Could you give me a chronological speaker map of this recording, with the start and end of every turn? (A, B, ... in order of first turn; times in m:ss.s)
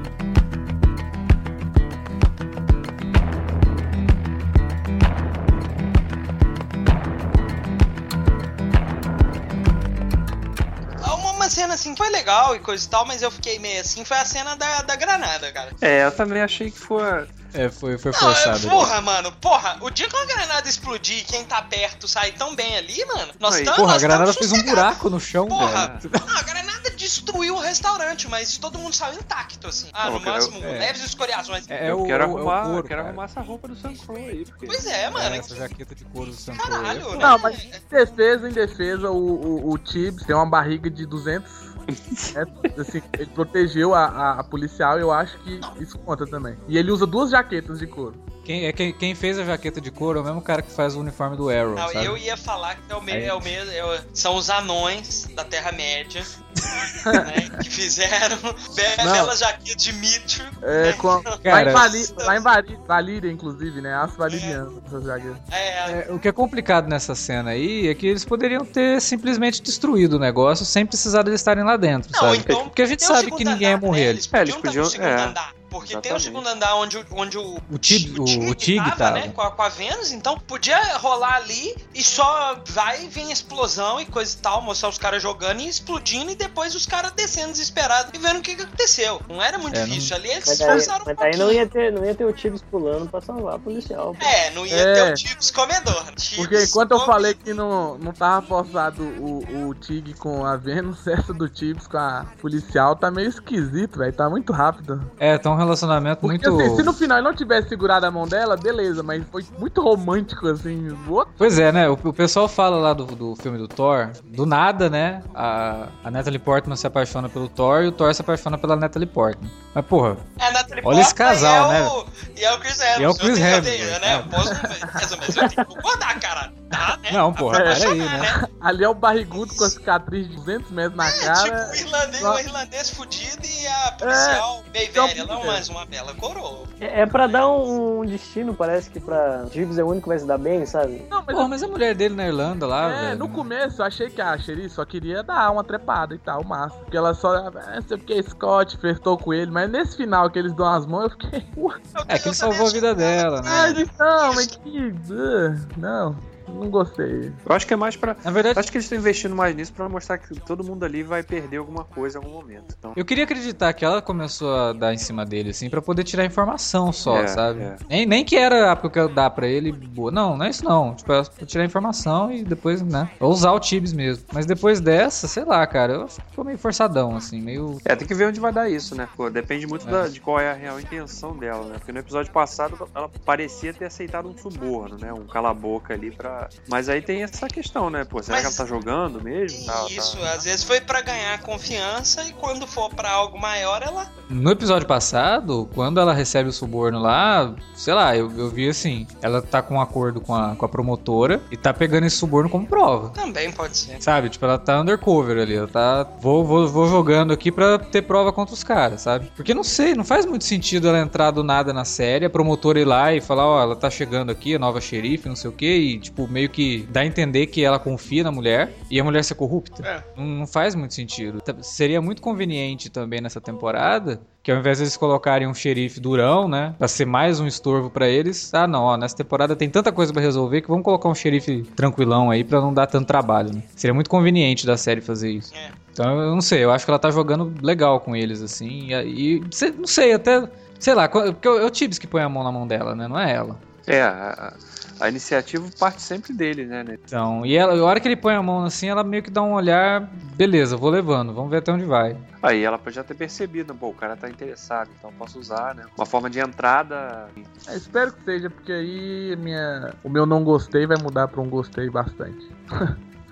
0:11.0-0:15.7 A
0:15.8-0:17.3 B
0:17.5-0:18.9 C
0:18.2-0:25.0 A
0:23.4-0:23.8 B
0:23.8-0:26.3 C
0:25.5-0:31.7 A
0:25.5-0:26.0 B
0:30.0-0:30.5 B
0:30.6-0:31.0 C
0:31.7-0:33.2 C
0:31.8-0:35.0 B
0:34.7-0:35.5 A
0:35.1-0:37.3 C
0:36.6-0:37.8 A
0:37.2-0:41.7 D
0:41.9-0:42.4 B
0:42.3-0:48.2 D
0:48.4-0:52.2 C
0:51.8-0:56.3 A
0:53.1-0:53.5 C
0:56.6-0:57.2 C
0:57.2-1:02.4 A
0:59.0-0:59.3 D
1:00.6-1:05.4 D
1:01.4-1:01.8 C
1:04.3-1:04.6 A
1:05.5-1:06.0 A
1:05.9-1:14.2 C
1:12.1-1:31.6 A
1:14.3-1:15.4 B
1:15.9-1:16.4 B
1:17.7-1:19.4 C
1:29.7-1:30.1 C
1:30.4-1:34.3 E
1:30.6-1:30.9 D
1:34.2-1:37.4 A
1:34.7-1:35.2 D
1:36.4-1:45.1 D
1:45.2-1:47.0 C
1:46.2-1:51.4 D
1:51.4-2:00.2 C
2:00.4-2:08.4 A
2:00.8-2:02.0 C
2:03.0-2:04.5 C
2:04.6-2:05.3 D
2:07.1-2:08.4 C
2:07.5-2:12.4 D
2:09.3-2:09.7 A
2:11.0-2:17.7 A
2:14.0-2:15.6 D
2:16.8-2:21.1 E
2:21.1-2:21.7 D
2:21.3-2:23.5 C
2:22.8-2:31.8 D
2:32.0-2:34.6 A
2:32.1-2:33.8 C
2:33.5-2:37.4 D
2:37.5-2:43.0 B
2:38.2-2:38.7 C
2:43.0-2:57.8 C
2:47.1-2:47.8 B
2:57.8-3:10.5 B
2:59.8-3:00.1 C
3:08.3-3:08.6 A
3:09.5-3:14.1 A
3:14.3-3:23.2 C
3:23.2-3:24.0 A
3:24.0-4:03.6 C
3:55.5-3:55.8 A
4:03.9-4:07.0 B
4:07.1-4:12.2 C
4:12.4-4:17.5 B
4:17.7-4:22.9 D